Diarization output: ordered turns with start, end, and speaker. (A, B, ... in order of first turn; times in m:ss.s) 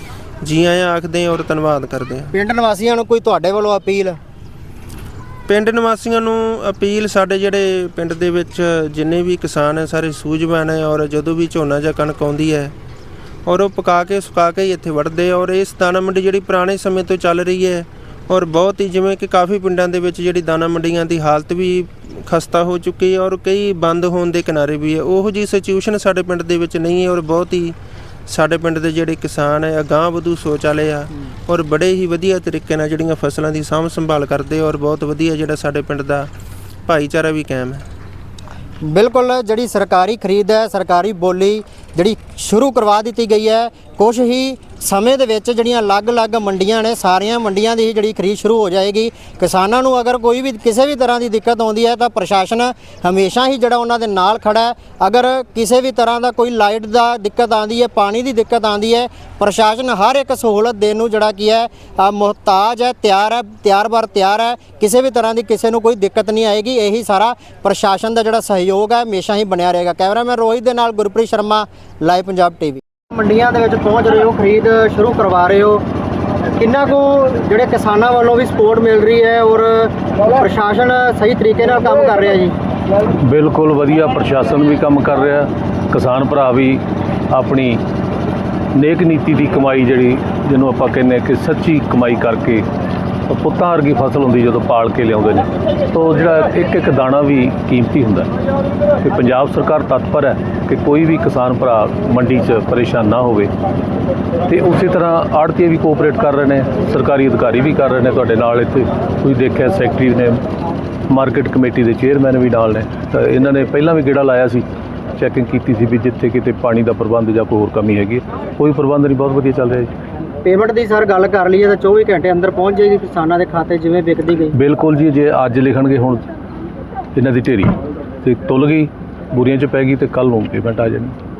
0:00.4-0:02.3 A
0:02.3-0:04.2 B
0:05.5-0:12.7 A
0:13.4-0:27.7 A
0:28.3-0:36.3 A
0:36.9-0:37.8 A
0:38.8-1:15.8 B
1:16.6-1:22.5 B
1:23.2-1:26.8 C
1:27.3-1:27.8 C
1:28.7-1:32.6 C
1:33.3-1:38.3 C
1:39.0-1:43.5 C
1:44.5-1:50.4 C
1:51.1-1:54.6 C
1:55.2-1:59.9 C
2:00.4-2:04.6 B
2:04.5-2:06.3 C
2:07.2-2:11.1 C